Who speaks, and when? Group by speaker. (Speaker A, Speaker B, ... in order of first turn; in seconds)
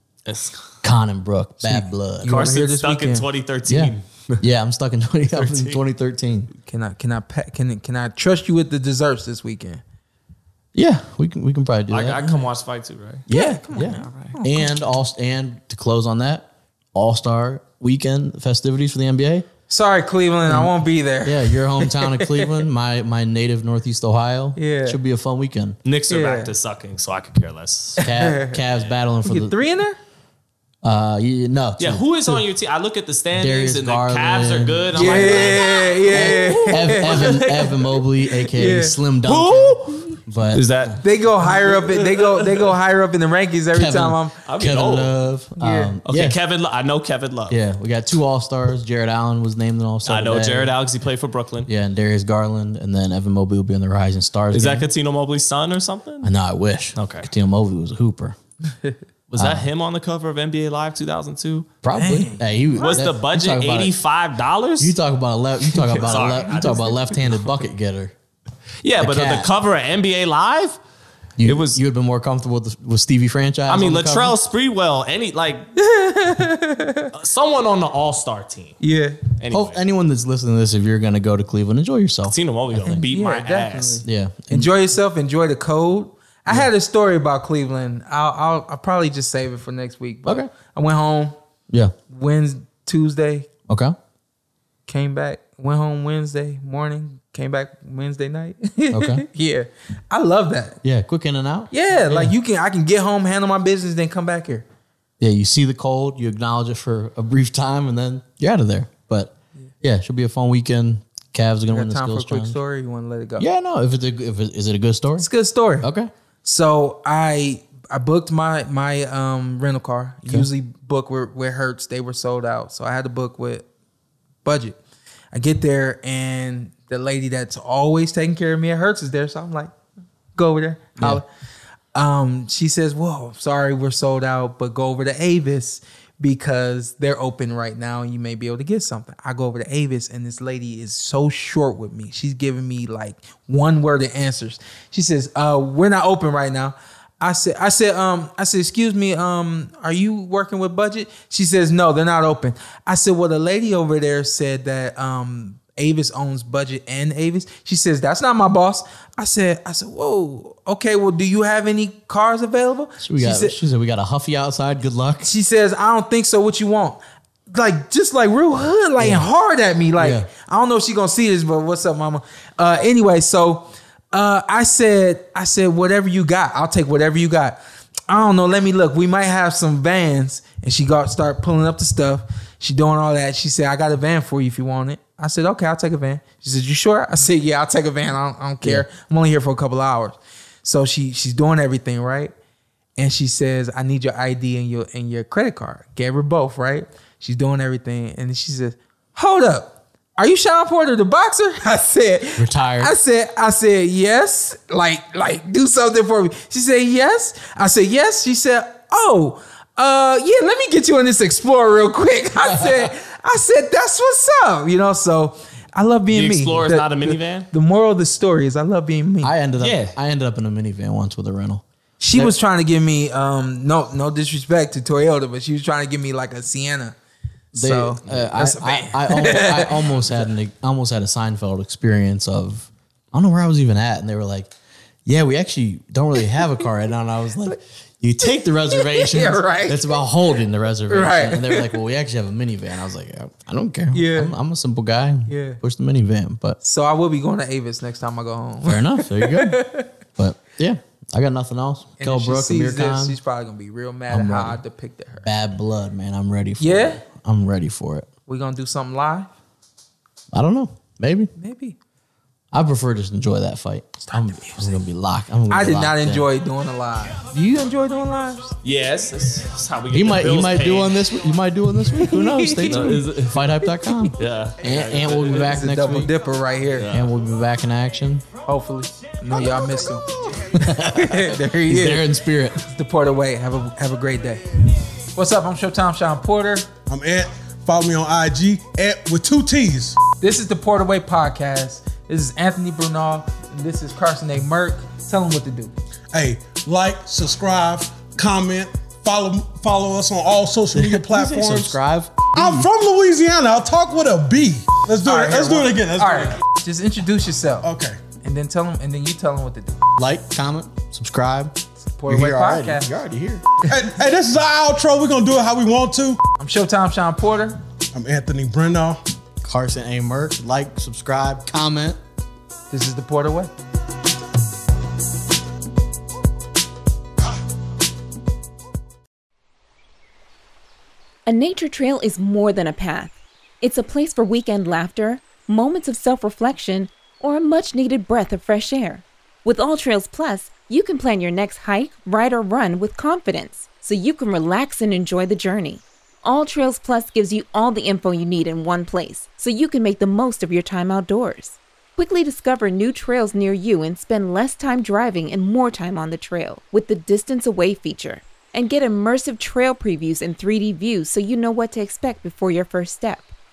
Speaker A: 0.3-0.7, 2.3-4.4, 5.4-5.8, 11.9-13.2, 25.9-28.0, 31.8-37.7, 39.2-41.0, 41.8-42.7, 44.5-45.2, 46.1-47.6, 50.1-51.7, 54.5-56.3, 57.0-57.3, 59.3-61.7, 62.8-65.0, 65.7-67.5, 68.8-70.8, 71.4-71.8, 73.7-75.7, 77.1-78.8, 79.4-79.8, 82.3-84.0, 216.1-217.5, 219.6-219.9, 268.6-270.9, 272.7-273.5, 274.2-275.5, 276.8-277.1
Speaker B: 0.8-2.5, 3.7-6.5, 10.8-12.4, 13.3-19.5, 20.5-25.8, 28.0-29.6, 30.8-32.4, 33.4-41.0, 43.7-46.4, 47.5-50.8, 51.6-54.9, 56.2-58.4, 59.4-59.7, 61.8-64.0, 64.8-68.1, 69.0-69.5, 71.4-74.4, 79.5-83.1, 84.0-84.7, 90.3-90.5, 93.7-94.0, 98.9-99.2, 100.8-102.3, 105.2-112.6, 113.4-115.3, 115.8-116.1, 163.0-165.3, 169.0-169.3, 170.0-170.3, 202.4-202.9, 219.2-221.6, 227.5-234.5, 235.1-246.6, 248.6-249.6, 250.2-253.2, 254.1-254.6, 255.2-258.1, 260.3-261.3, 262.5-266.3, 269.9-276.1, 276.9-278.3, 280.6-282.6, 300.7-302.7, 310.0-313.4, 319.4-322.0
Speaker C: 1.6-3.2, 6.7-9.8, 13.3-14.7, 19.7-22.7, 24.6-25.0, 26.1-26.5, 28.0-28.6, 29.3-30.0, 35.0-37.7, 38.5-39.0, 41.0-44.4, 45.6-46.0, 61.9-62.4, 75.8-77.1, 78.8-79.2, 82.8-91.3, 92.1-93.5, 94.9-100.8, 101.7-104.7, 111.7-113.5, 115.2-115.9, 116.4-123.7, 124.4-124.8, 125.3-129.7, 130.4-131.3, 131.9-163.6, 165.2-167.0, 167.5-192.3, 193.0-219.3, 222.0-226.9, 227.6-230.3, 238.7-240.0, 240.9-241.7, 243.9-244.3, 245.3-245.6, 246.6-249.9, 252.0-255.3, 256.6-257.0, 258.3-259.3, 261.4-261.8, 264.0-264.8, 265.5-268.5, 272.0-273.0, 275.4-276.9, 278.5-282.1, 282.7-284.6, 285.1-286.7, 290.2-295.7, 305.1-309.8, 312.0-312.9, 316.4-317.6, 322.7-323.5
Speaker D: 286.9-290.0, 296.1-301.8, 302.3-306.4, 307.6-308.0, 313.7-316.2, 317.9-319.0
Speaker E: 331.3-363.3